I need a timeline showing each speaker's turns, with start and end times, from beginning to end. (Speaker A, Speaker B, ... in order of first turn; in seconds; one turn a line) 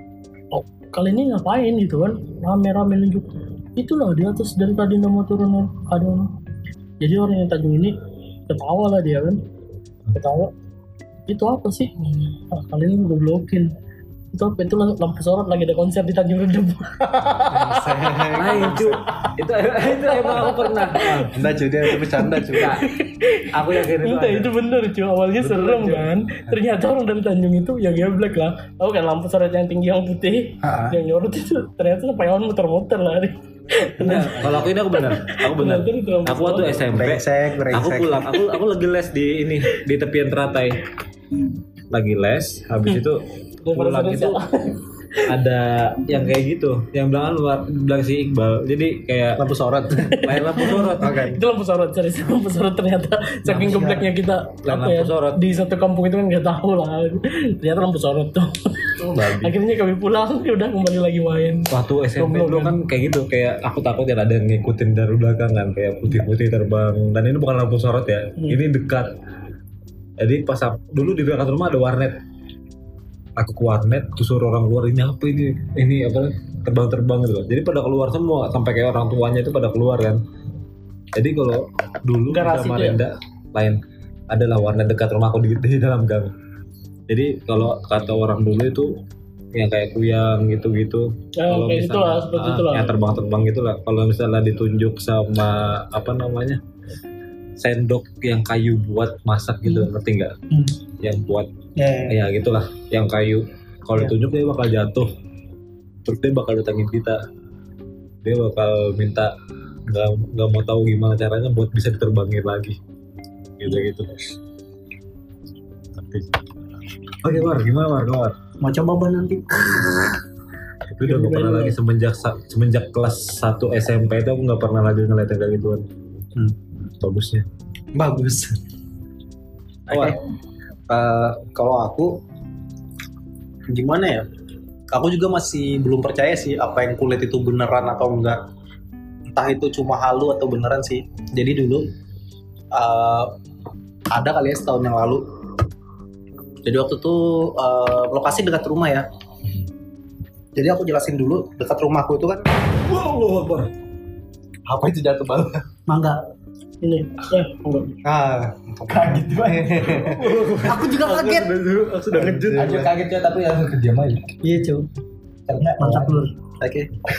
Speaker A: 0.5-6.3
Speaker A: 7.0-7.9
Speaker A: 8.5-9.4
Speaker A: 10.1-10.5
Speaker A: 11.3-13.7
Speaker A: 14.3-18.9
Speaker B: 17.5-19.0
Speaker C: 18.3-21.4
Speaker A: 19.8-21.3
Speaker B: 21.3-22.7
Speaker A: 21.8-36.8
Speaker C: 22.5-22.9
Speaker C: 23.5-24.5
Speaker C: 25.4-26.1
Speaker B: 30.6-30.9
Speaker C: 34.0-40.8
Speaker B: 36.9-38.3
Speaker C: 41.9-44.4
Speaker A: 43.6-44.9
Speaker C: 45.3-49.4
Speaker B: 49.4-50.3
Speaker A: 50.1-62.7
Speaker C: 50.2-51.1
Speaker B: 51.0-51.4
Speaker B: 53.5-54.1
Speaker C: 54.6-55.4
Speaker C: 59.0-59.5
Speaker C: 61.7-69.1
Speaker C: 70.2-72.1
Speaker C: 73.4-80.2
Speaker C: 81.1-83.8
Speaker A: 82.3-83.0
Speaker C: 84.3-86.3
Speaker C: 87.1-88.9
Speaker C: 89.5-96.6
Speaker A: 91.4-93.0
Speaker C: 97.6-100.3
Speaker C: 101.0-101.5
Speaker B: 101.8-102.2
Speaker C: 102.1-105.1
Speaker C: 106.0-107.2
Speaker C: 108.2-109.3
Speaker C: 109.9-112.8
Speaker C: 113.6-114.2
Speaker C: 116.0-116.3
Speaker C: 117.2-118.3
Speaker D: 118.6-120.1
Speaker C: 120.9-125.8
Speaker A: 121.0-121.8
Speaker C: 127.0-127.4
Speaker B: 127.9-128.5
Speaker C: 129.9-130.2
Speaker B: 129.9-130.2
Speaker B: 130.9-132.1
Speaker B: 133.7-134.2
Speaker B: 134.9-138.4
Speaker B: 139.3-141.8
Speaker B: 142.7-143.3
Speaker B: 144.1-145.2
Speaker B: 146.6-149.1
Speaker B: 150.6-152.4
Speaker C: 152.7-153.7
Speaker B: 154.7-155.6
Speaker D: 155.9-156.2
Speaker A: 156.8-158.0
Speaker B: 158.0-160.4
Speaker C: 159.9-162.9
Speaker D: 160.7-161.5
Speaker B: 162.1-163.0
Speaker E: 162.6-163.8
Speaker B: 163.8-164.3
Speaker D: 164.4-164.8
Speaker E: 165.5-166.2
Speaker D: 165.8-166.3
Speaker B: 166.6-166.9